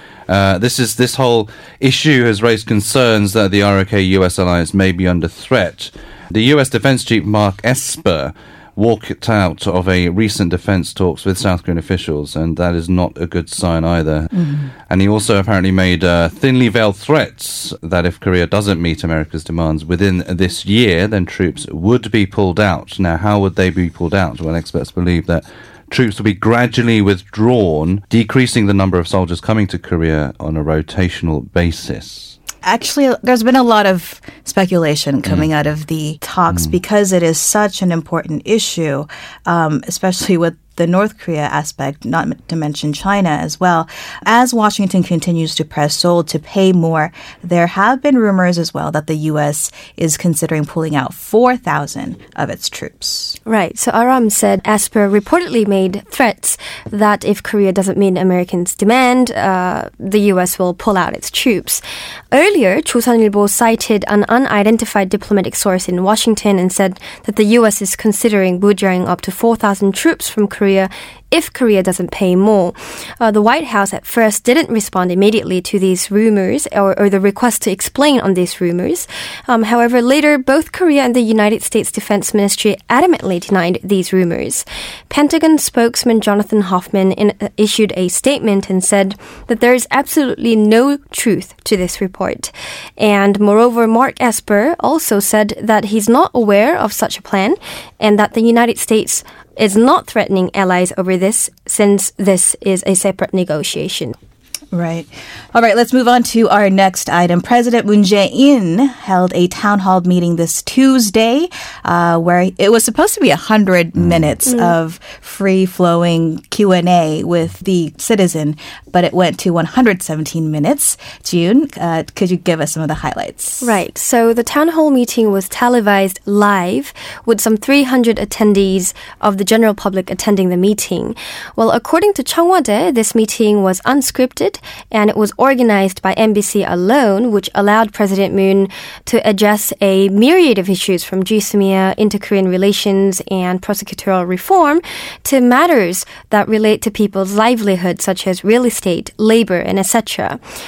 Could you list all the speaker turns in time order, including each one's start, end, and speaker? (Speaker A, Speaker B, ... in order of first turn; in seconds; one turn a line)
Speaker A: 0.3-14.4
Speaker B: 14.4-14.7
Speaker A: 14.9-32.4
Speaker B: 32.6-53.4
Speaker A: 36.5-36.8
Speaker C: 53.5-104.1
Speaker B: 104.7-123.7
Speaker A: 114.0-114.3
Speaker C: 114.5-114.7
Speaker C: 123.6-150.4